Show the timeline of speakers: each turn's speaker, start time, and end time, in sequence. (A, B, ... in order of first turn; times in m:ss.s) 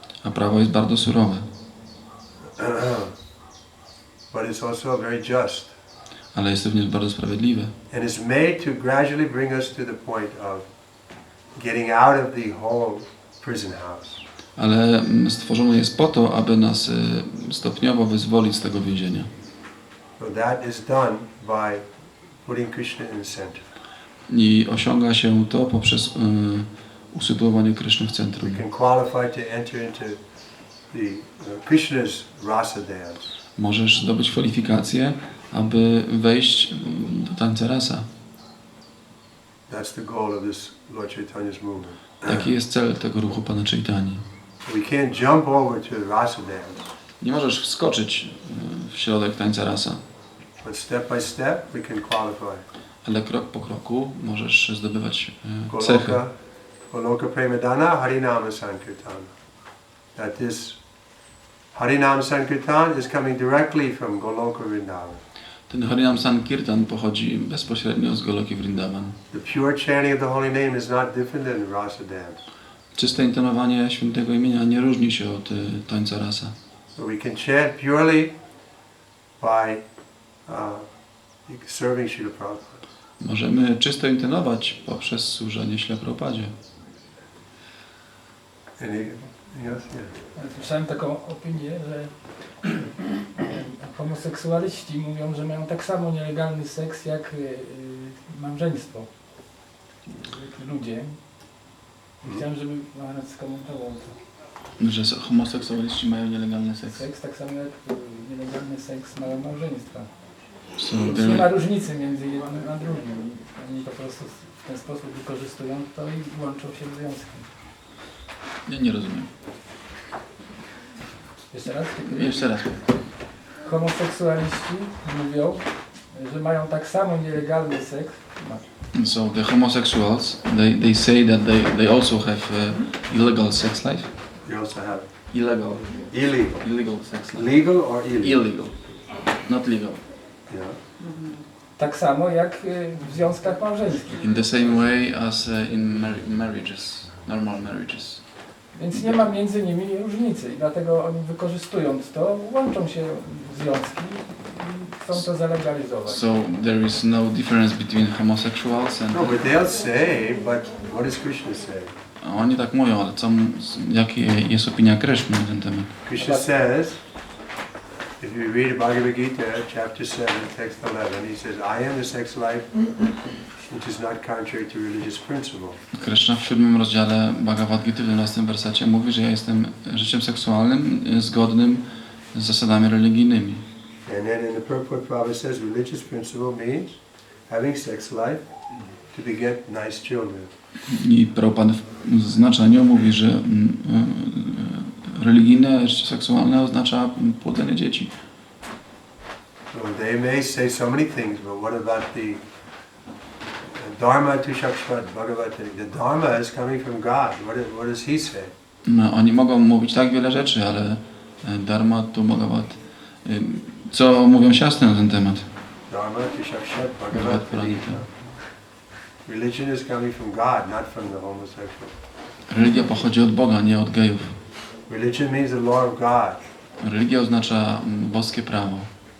0:00.2-0:01.4 A
0:02.6-0:03.2 B
0:04.3-0:05.7 B
0:06.3-0:07.7 A
0:07.9-0:10.7 B
0:11.5-0:14.2 B
0:14.6-0:19.3 A
0:20.2-0:21.8 B
0:22.4-0:23.7 B
0:24.3-0:28.6 A
0:28.4-0:30.2 B
0:30.9-0:33.3 B
0:33.6-0:38.1 A
0:39.7-0:42.5 B
0:42.2-0:44.2 A
0:44.6-0:46.8 B
0:47.2-0:50.0 A
0:50.6-0:52.6 B
0:53.0-0:56.2 A
0:55.7-0:56.3 B
0:56.9-0:59.3 B
1:00.2-1:00.8 B
1:01.7-1:05.2 B
1:05.7-1:09.2 A
1:09.3-1:12.4 B
1:12.9-1:16.5 A
1:17.0-1:18.3 B
1:19.4-1:19.8 B
1:20.4-1:20.9 B
1:21.5-1:22.8 B
1:23.2-1:26.5 A
1:28.8-1:30.1 B
1:30.3-1:32.8 C
1:33.4-1:39.1 C
1:40.1-1:41.2 C
1:42.2-1:44.2 C
1:44.8-1:47.0 A
1:46.8-1:50.1 C
1:50.7-1:51.5 A
1:50.9-1:57.5 C
1:58.6-1:59.3 A
2:01.5-2:02.5 C
2:02.0-2:02.9 A
2:03.6-2:08.6 C
2:08.9-2:14.1 A
2:14.4-2:15.1 B
2:15.3-2:17.5 A
2:16.1-2:16.6 B
2:17.3-2:18.4 B
2:18.2-2:18.7 A
2:19.4-2:20.0 A
2:20.5-2:20.8 B
2:21.8-2:24.2 C
2:24.2-2:28.2 A
2:28.7-2:36.2 C
2:36.1-2:39.4 A
2:39.1-2:42.0 B
2:42.2-2:45.9 A
2:46.0-2:47.0 B
2:46.2-2:46.5 C
2:48.2-2:52.7 B
2:53.7-2:55.8 B
2:55.9-3:03.6 A
3:04.0-3:08.4 B
3:09.1-3:10.5 B
3:10.9-3:18.1 A
3:19.7-3:22.4 B
3:23.7-3:28.5 B
3:28.8-3:35.5 A
3:35.9-3:38.1 B
3:37.1-3:38.0 A
3:39.2-3:41.9 B
3:42.5-3:44.4 A
3:44.9-3:46.4 B
3:46.8-3:48.9 A